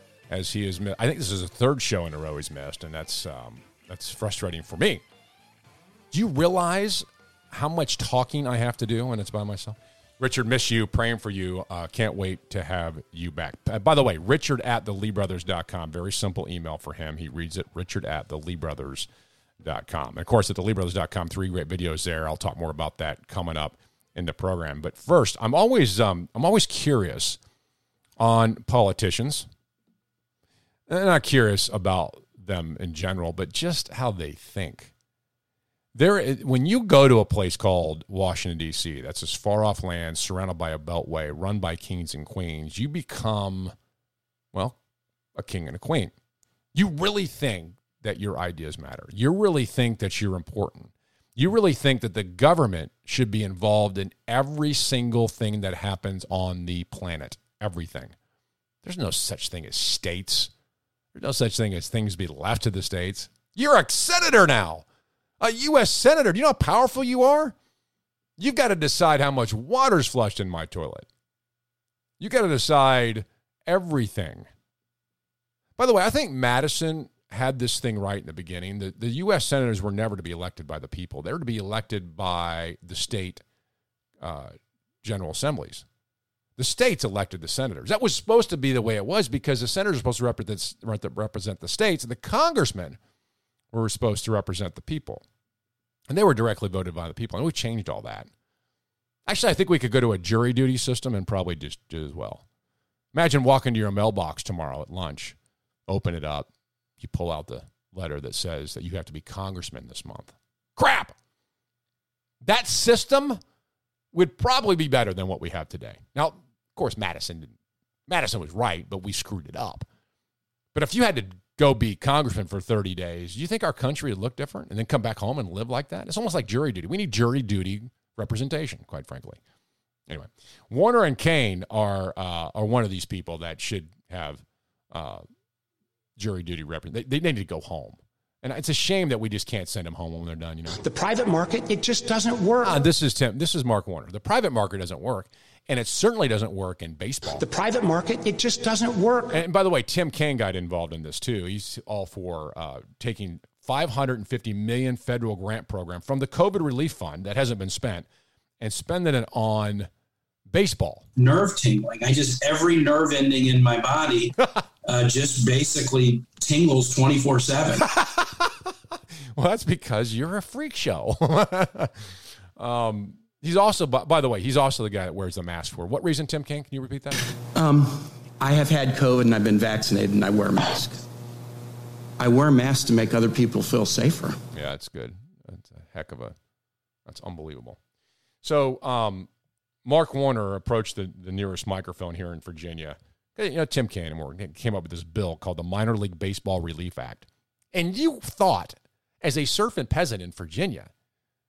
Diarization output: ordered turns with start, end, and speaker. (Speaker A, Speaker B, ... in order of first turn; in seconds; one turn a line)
Speaker A: 0.3-5.0
Speaker A: 6.1-19.1
Speaker A: 19.6-27.4
Speaker A: 28.2-29.5
Speaker A: 30.9-34.9
Speaker A: 36.0-43.8
Speaker A: 44.5-44.8
Speaker A: 45.4-46.1
Speaker A: 46.7-58.1
Speaker A: 58.8-60.5
Speaker A: 61.1-64.8
Speaker A: 65.4-67.5
Speaker A: 68.4-71.1
Speaker A: 72.2-74.5
Speaker A: 75.8-83.4
Speaker A: 84.2-85.8
Speaker A: 86.6-93.0
Speaker A: 93.7-95.2
Speaker A: 96.1-98.3
Speaker A: 99.3-102.4
Speaker A: 103.1-105.4
Speaker A: 105.9-106.5
Speaker A: 107.0-111.2
Speaker A: 112.4-113.4
Speaker A: 114.1-117.6
Speaker A: 118.1-119.9
Speaker A: 120.7-129.4
Speaker A: 130.1-135.2
Speaker A: 136.2-140.8
Speaker B: 140.7-142.8
Speaker A: 142.6-147.4
Speaker B: 147.3-149.4
Speaker A: 149.3-158.1
Speaker A: 158.6-159.9
Speaker A: 160.5-161.0
Speaker C: 161.2-164.3
Speaker C: 164.9-167.8
Speaker A: 167.9-168.5
Speaker A: 169.4-171.9
Speaker A: 172.6-177.2
Speaker D: 177.6-181.0
Speaker D: 182.2-184.4
Speaker A: 184.5-186.4
Speaker A: 187.1-187.8
Speaker A: 188.4-189.3
Speaker A: 189.8-200.9